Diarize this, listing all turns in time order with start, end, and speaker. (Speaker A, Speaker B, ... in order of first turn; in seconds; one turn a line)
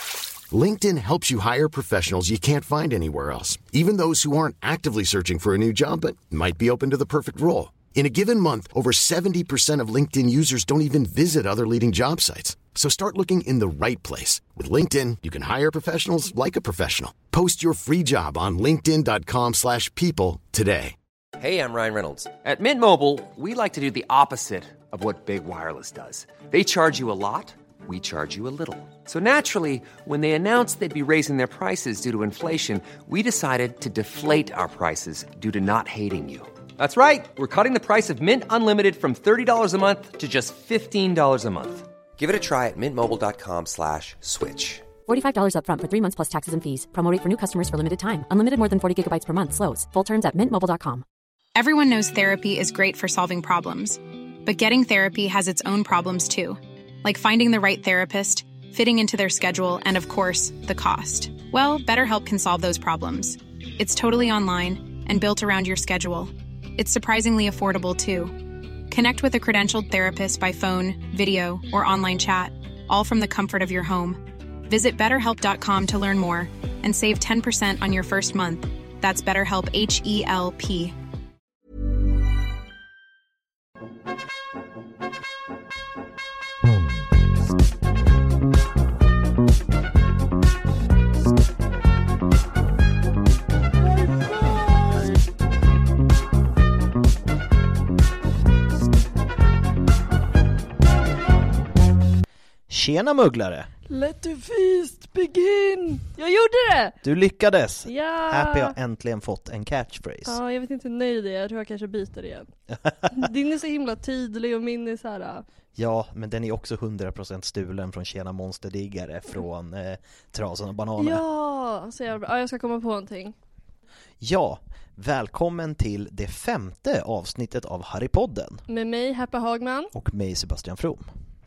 Speaker A: 0.5-20.9
Speaker B: 21.4-44.9
Speaker C: 45.0-51.0
Speaker D: 51.5-81.0
Speaker E: 102.7-103.7
Speaker F: 103.9-107.0
Speaker E: 107.0-110.4
Speaker F: 107.8-108.8
Speaker F: 110.2-112.5
Speaker E: 112.8-113.2
Speaker F: 113.1-115.4
Speaker E: 115.7-121.2
Speaker F: 121.0-123.3
Speaker E: 124.2-128.6
Speaker F: 128.7-129.9
Speaker E: 129.9-131.1